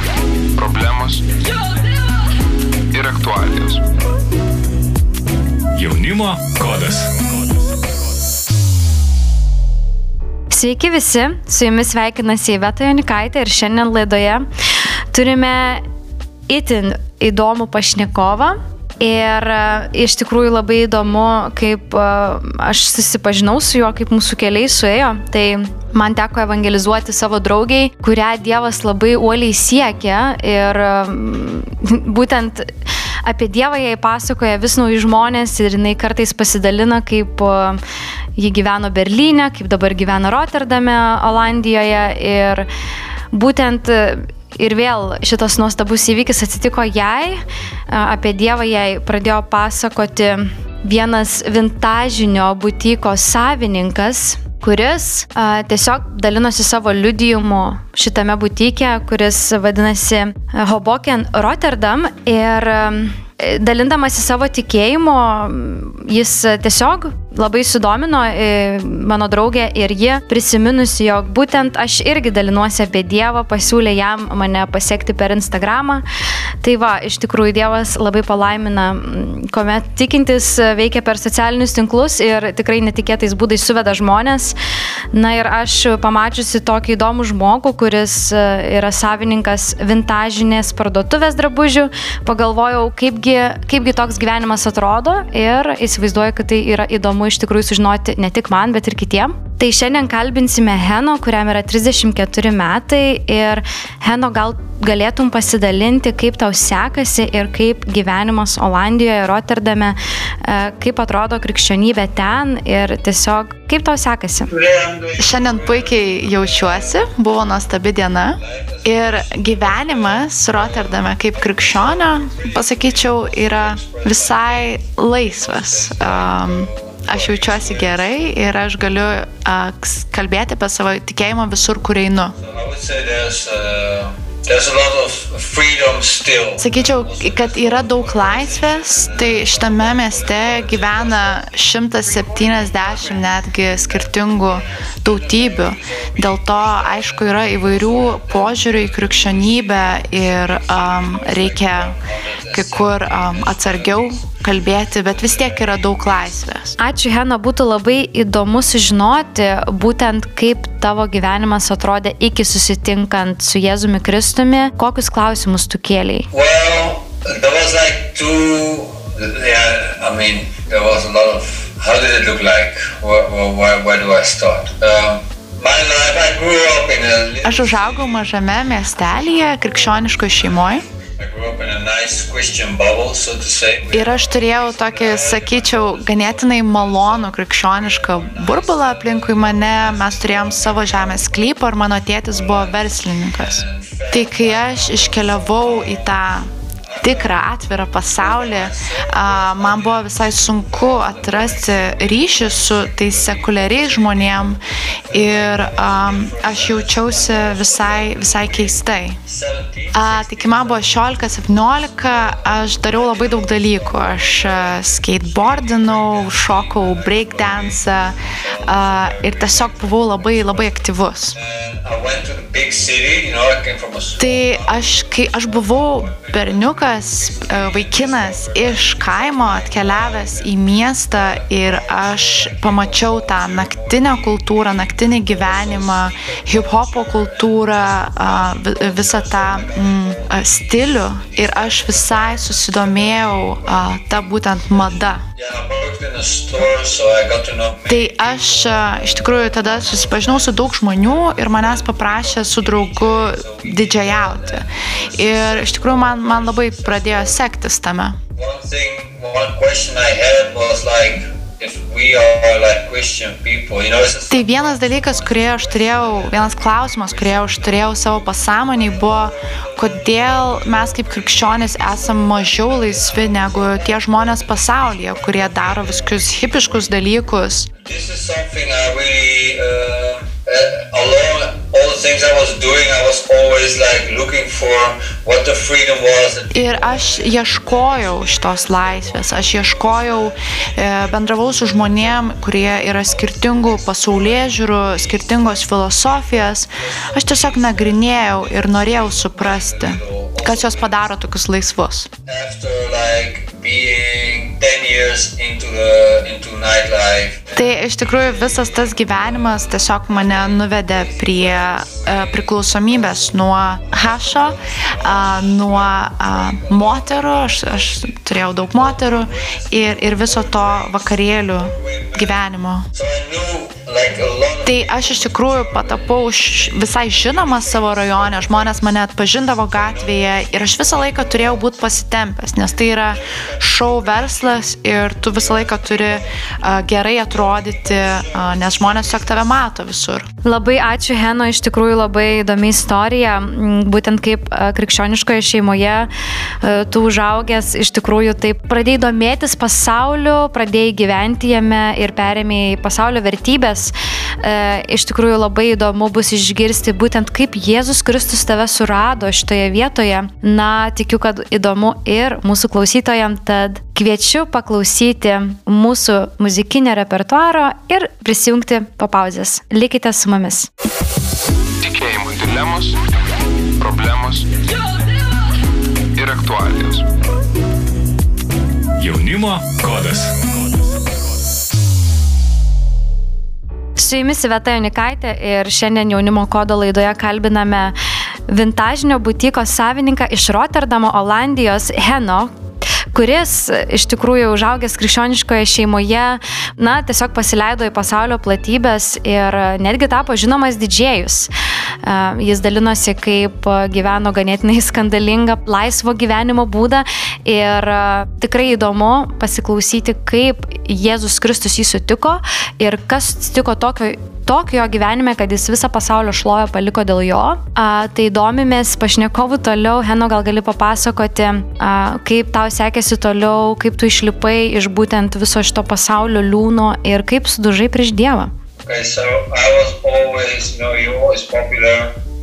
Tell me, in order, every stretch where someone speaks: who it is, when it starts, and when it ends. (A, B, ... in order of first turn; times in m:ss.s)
0:00.6-0:00.9 A
0:00.7-0:01.2 B
0:02.9-0:03.6 A
0:03.0-0:03.8 B
0:05.8-0:08.1 C
0:10.5-0:14.5 D
0:15.1-0:15.8 D
0:16.5-0:32.7 D
0:33.2-0:37.8 D
0:38.4-0:42.7 D
0:43.3-1:16.0 D
1:16.6-1:24.6 D
1:25.1-1:54.5 D
1:54.5-1:57.0 B
1:55.2-2:12.4 E
1:58.4-2:08.2 B
2:12.4-2:23.3 B
2:16.6-2:32.0 E
2:23.9-2:34.4 B
2:32.5-2:36.8 E
2:35.0-2:36.1 B
2:36.8-2:46.3 D
2:46.3-2:58.4 B
2:57.4-3:00.8 E
2:59.2-2:59.5 B
3:00.4-3:11.2 B
3:03.9-3:16.5 E
3:12.3-3:16.3 B
3:16.8-3:17.4 B
3:17.0-3:29.2 E
3:18.2-3:31.2 B
3:29.9-3:41.4 E
3:32.3-3:40.7 B
3:41.3-4:17.4 B
3:44.2-4:05.2 E
4:07.9-4:18.2 E
4:18.4-4:34.4 B
4:24.3-4:37.7 E
4:35.1-4:36.5 B
4:37.8-4:50.8 B
4:46.5-5:02.1 E
4:51.9-4:52.2 B
4:53.0-4:55.3 B
4:56.8-5:01.0 B
5:02.3-5:07.6 B
5:07.5-5:22.9 E
5:08.3-5:09.6 B
5:10.3-5:22.4 B
5:22.9-5:29.0 B
5:24.6-5:40.3 E
5:29.6-5:31.9 B
5:33.1-5:34.7 B
5:35.3-5:36.2 B
5:37.3-5:39.5 B
5:40.4-5:46.1 D
5:46.6-6:10.7 D
6:11.8-6:12.9 A
6:11.8-6:13.0 B
6:13.8-6:14.4 A
6:14.0-6:14.4 B
6:16.2-6:17.0 A
6:16.4-6:17.0 B
6:19.0-6:21.3 C
6:24.0-6:28.0 D
6:28.5-6:32.5 D
6:33.1-6:41.5 D
6:42.0-7:08.5 D
7:08.8-7:12.2 B